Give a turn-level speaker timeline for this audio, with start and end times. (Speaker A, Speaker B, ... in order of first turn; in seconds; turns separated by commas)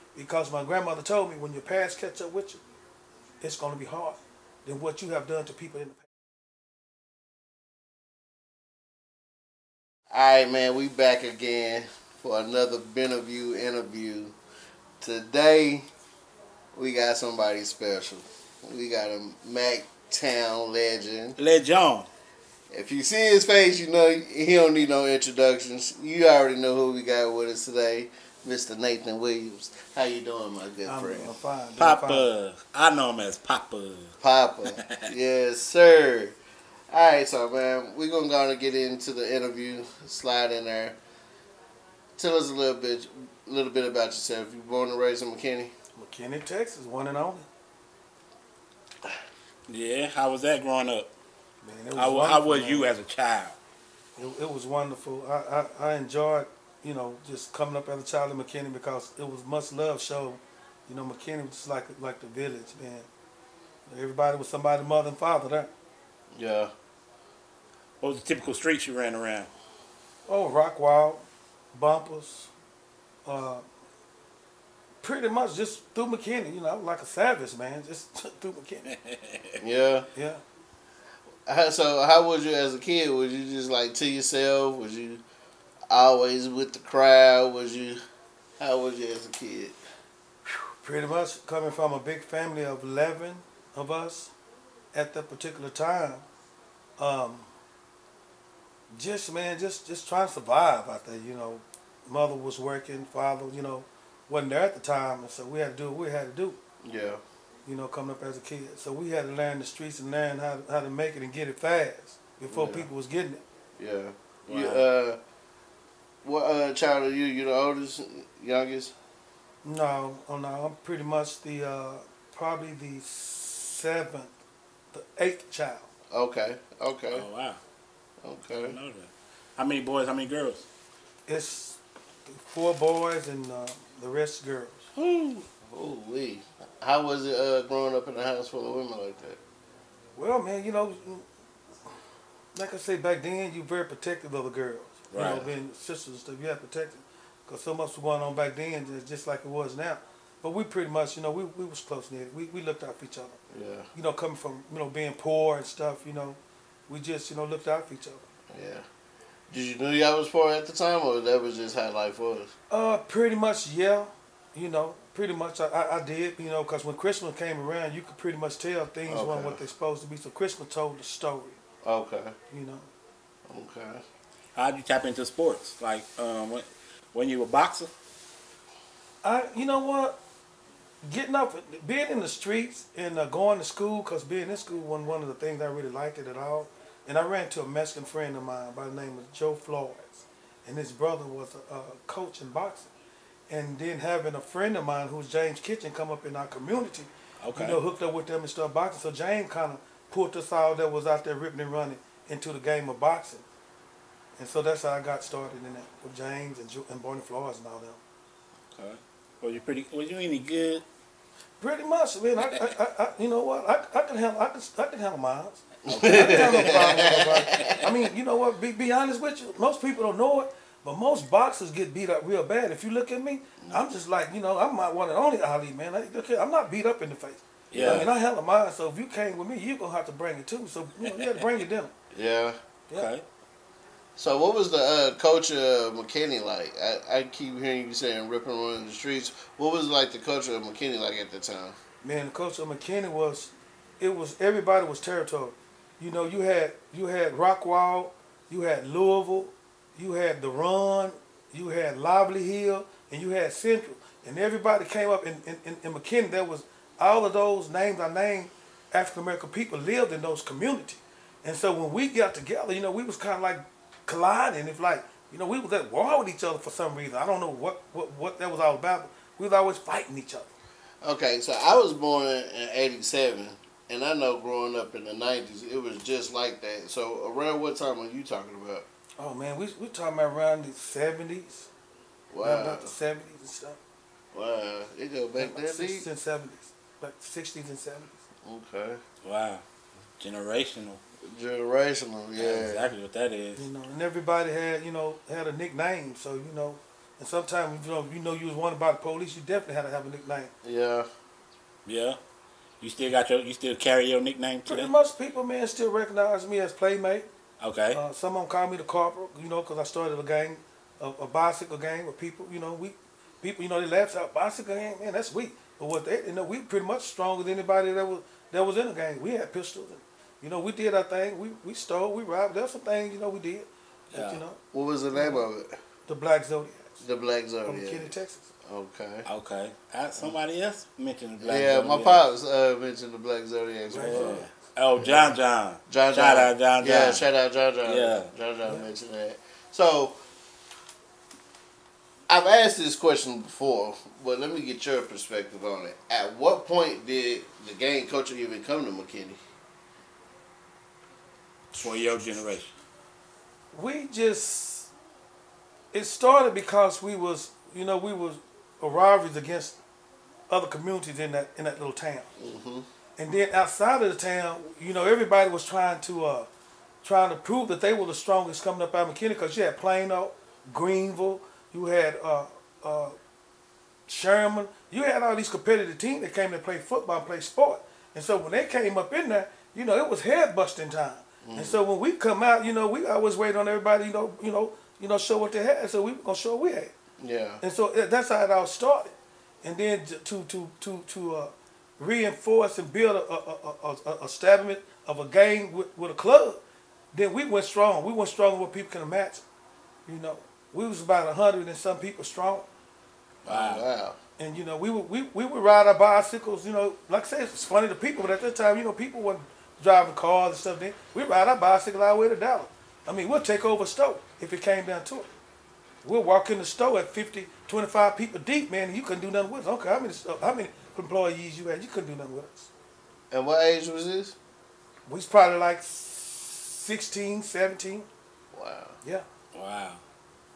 Speaker A: 0.1-2.6, Speaker A: 3.4-6.0, Speaker B: 10.1-14.3, Speaker B: 15.0-15.8, Speaker B: 16.7-21.4, Speaker C: 21.4-22.1, Speaker B: 22.7-31.3, Speaker A: 30.9-32.3, Speaker C: 31.8-35.0, Speaker B: 34.2-36.4, Speaker B: 36.9-41.0, Speaker B: 42.2-45.7, Speaker A: 46.0-47.5, Speaker C: 49.7-51.1, Speaker A: 51.6-52.9, Speaker C: 52.0-53.5, Speaker A: 54.2-63.1, Speaker A: 63.9-65.7, Speaker B: 66.3-66.7, Speaker C: 68.0-69.5, Speaker A: 70.3-72.5, Speaker A: 73.2-73.6, Speaker A: 75.0-78.9, Speaker C: 78.9-79.6, Speaker B: 79.6-80.1, Speaker A: 80.1-80.4, Speaker B: 81.5-85.2, Speaker B: 85.9-88.0, Speaker B: 88.6-89.8, Speaker A: 90.5-94.3, Speaker A: 94.9-96.2, Speaker A: 97.0-97.5, Speaker A: 98.9-106.6, Speaker B: 106.8-107.2, Speaker A: 107.7-113.4, Speaker B: 112.5-112.9, Speaker B: 113.8-115.2, Speaker C: 114.5-114.8, Speaker B: 116.2-118.9, Speaker A: 119.6-124.3, Speaker A: 124.9-125.9, Speaker B: 126.1-127.2, Speaker C: 127.1-127.6, Speaker B: 128.2-128.8, Speaker C: 128.5-130.7, Speaker A: 131.3-134.9, Speaker B: 134.9-139.4, Speaker A: 140.2-141.2, Speaker A: 142.5-153.4, Speaker C: 145.1-145.5, Speaker B: 153.5-153.9, Speaker A: 153.9-158.2, Speaker B: 158.5-158.8, Speaker B: 159.5-162.5, Speaker A: 162.7-171.6, Speaker B: 169.1-169.6, Speaker B: 171.8-172.3, Speaker A: 172.5-172.9, Speaker B: 173.5-174.0, Speaker C: 174.5-177.9, Speaker A: 179.2-180.2, Speaker A: 181.0-192.9, Speaker A: 193.5-203.4, Speaker C: 197.4-197.8, Speaker A: 204.4-208.0, Speaker C: 208.7-210.8, Speaker A: 211.6-231.9, Speaker B: 215.9-217.8, Speaker C: 215.9-217.8, Speaker C: 227.7-228.1, Speaker B: 227.7-228.1, Speaker B: 232.1-232.6, Speaker C: 232.9-233.2, Speaker B: 234.2-241.8, Speaker A: 242.0-270.5, Speaker B: 271.0-278.9, Speaker A: 279.2-281.7, Speaker B: 282.3-282.9, Speaker A: 282.4-283.8, Speaker B: 284.3-286.1, Speaker A: 285.4-288.2, Speaker B: 288.4-289.0, Speaker C: 289.2-289.6, Speaker C: 290.2-291.0, Speaker B: 291.2-292.9, Speaker C: 292.4-293.6, Speaker A: 293.6-300.5, Speaker B: 300.6-301.1, Speaker C: 301.9-302.2, Speaker C: 302.8-304.9, Speaker A: 304.7-307.3, Speaker C: 307.6-308.0, Speaker A: 307.9-324.6, Speaker C: 324.1-324.4, Speaker B: 324.7-325.8, Speaker A: 325.1-325.4, Speaker A: 326.1-327.0, Speaker B: 327.0-329.2, Speaker A: 327.6-328.4, Speaker C: 329.2-332.2, Speaker B: 331.4-334.4, Speaker A: 333.9-334.5, Speaker C: 334.0-337.2, Speaker B: 335.0-335.3, Speaker B: 335.9-340.2, Speaker C: 337.8-338.3, Speaker B: 342.3-349.4, Speaker C: 351.7-352.7, Speaker A: 353.7-354.9, Speaker A: 355.9-359.8, Speaker A: 360.5-362.3, Speaker B: 362.4-362.9, Speaker A: 363.2-366.5, Speaker A: 367.0-373.1, Speaker A: 374.1-386.9, Speaker B: 381.4-381.8, Speaker B: 387.2-387.6, Speaker A: 387.6-396.6, Speaker A: 397.1-399.4, Speaker A: 400.1-402.7, Speaker C: 403.4-403.8, Speaker B: 403.4-404.2, Speaker A: 404.4-415.3, Speaker A: 416.0-422.7, Speaker B: 423.3-424.4, Speaker A: 425.1-428.1, Speaker B: 428.5-429.0, Speaker C: 429.5-430.0